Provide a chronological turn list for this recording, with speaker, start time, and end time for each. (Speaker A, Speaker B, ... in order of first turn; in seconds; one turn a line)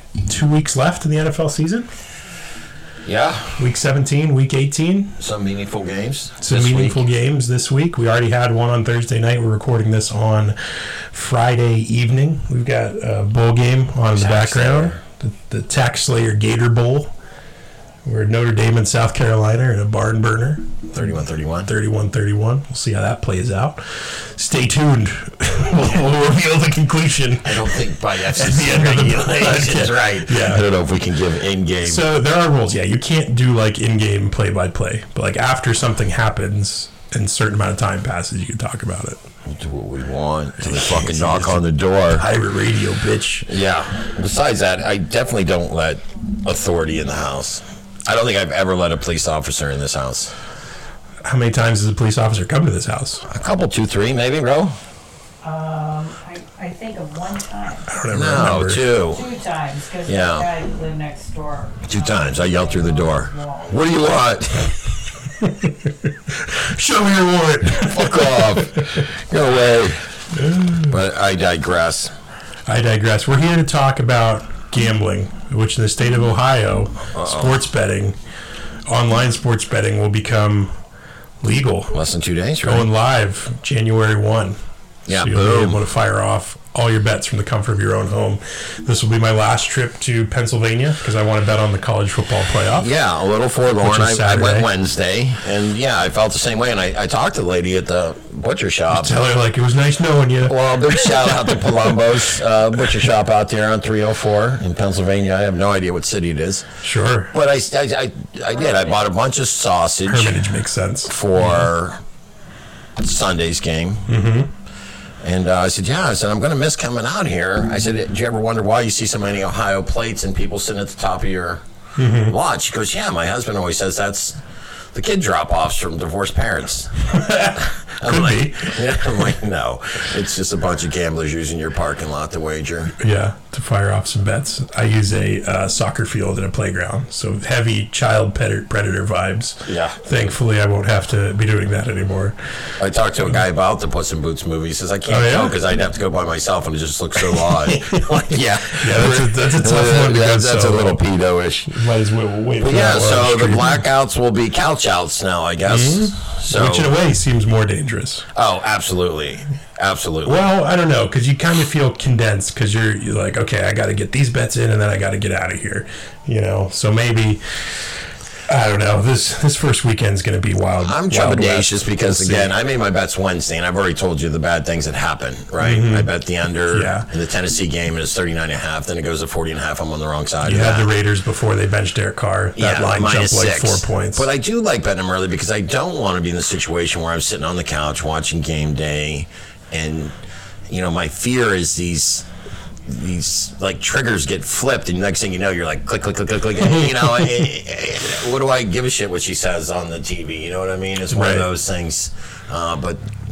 Speaker A: 0.3-1.9
Speaker B: 3.0-3.6
Speaker A: 3.6-5.2
Speaker B: 5.2-7.0
Speaker A: 6.4-10.6
Speaker A: 11.1-17.1
Speaker B: 14.1-15.0
Speaker A: 18.1-21.1
Speaker B: 20.9-21.7
Speaker A: 21.7-30.7
Speaker B: 27.4-32.1
Speaker A: 31.8-39.2
Speaker B: 39.5-42.2
Speaker A: 40.6-43.5
Speaker B: 43.5-50.3
Speaker A: 51.2-53.3
Speaker B: 53.3-54.8
Speaker C: 55.4-57.9
Speaker A: 57.9-58.9
Speaker B: 58.1-59.2
Speaker C: 59.0-63.8
Speaker B: 60.0-60.5
Speaker B: 61.9-64.7
Speaker A: 65.4-65.7
Speaker A: 66.3-69.0
Speaker B: 67.8-70.0
Speaker A: 70.3-70.9
Speaker B: 70.9-72.1
Speaker A: 72.7-78.2
Speaker B: 77.2-77.6
Speaker A: 78.9-80.8
Speaker A: 81.4-82.0
Speaker B: 81.9-82.9
Speaker A: 82.6-84.6
Speaker B: 85.1-85.8
Speaker A: 85.1-92.9
Speaker B: 92.8-99.2
Speaker A: 93.8-94.7
Speaker A: 98.9-102.0
Speaker B: 100.5-106.7
Speaker A: 106.8-107.3
Speaker B: 107.3-110.5
Speaker A: 110.1-111.7
Speaker B: 111.1-112.0
Speaker B: 113.0-114.1
Speaker A: 114.1-114.5
Speaker B: 115.2-121.6
Speaker A: 122.0-122.4
Speaker B: 122.2-124.4
Speaker B: 124.9-132.9
Speaker A: 127.1-128.8
Speaker A: 133.0-142.4
Speaker B: 139.7-140.0
Speaker B: 142.8-151.8
Speaker A: 145.1-145.6
Speaker A: 147.3-151.0
Speaker A: 151.7-153.8
Speaker B: 152.6-156.9
Speaker A: 155.7-158.3
Speaker B: 158.3-160.5
Speaker A: 160.2-167.4
Speaker A: 168.5-172.5
Speaker B: 170.8-180.9
Speaker A: 175.6-176.1
Speaker A: 176.7-177.1
Speaker A: 180.4-184.3
Speaker B: 182.6-190.2
Speaker B: 190.7-192.3
Speaker B: 192.9-203.1
Speaker A: 201.1-201.5